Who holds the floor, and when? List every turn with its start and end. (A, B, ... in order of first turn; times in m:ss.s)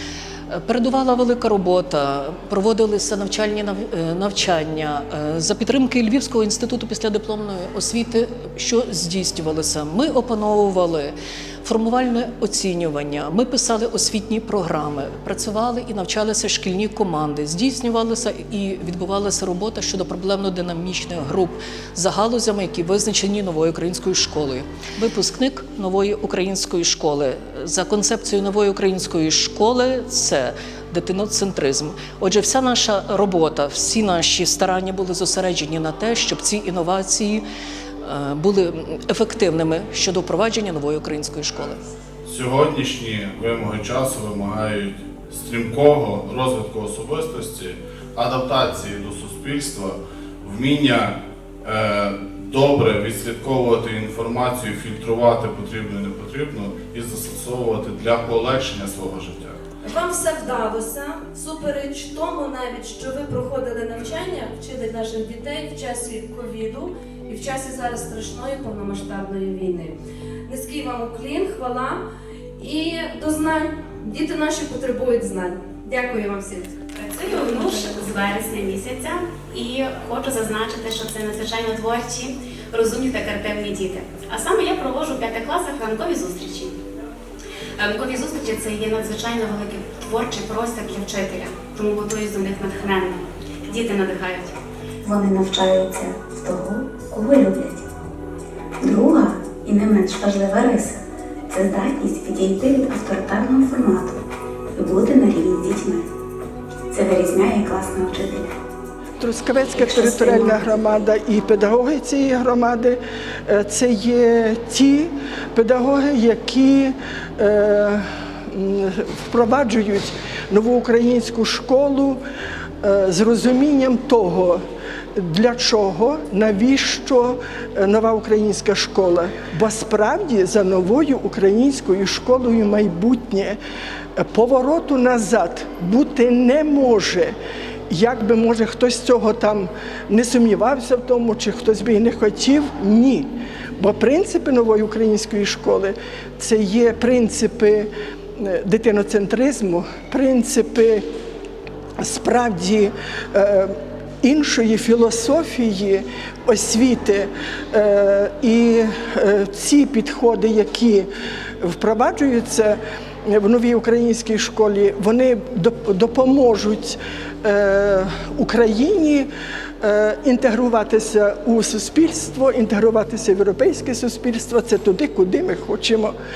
0:00.5-0:37.4 A
0:38.0-0:41.8 A
0:42.2-0:59.6 B
0:59.8-1:09.9 C
1:10.5-1:12.0 C
1:12.6-1:16.8 C
1:17.0-1:26.8 D
1:17.5-1:17.8 C
1:27.8-1:34.6 D
1:35.0-1:37.8 E
1:38.8-1:44.2 E
1:44.8-1:46.1 E
1:46.9-1:48.5 E
1:49.2-2:02.2 F
1:49.8-1:51.0 E
2:02.8-2:04.6 F
2:05.2-2:13.6 F
2:14.2-2:17.4 F
2:17.9-2:31.0 F
2:32.0-2:41.1 F
2:41.6-2:49.3 F
2:49.8-2:56.1 F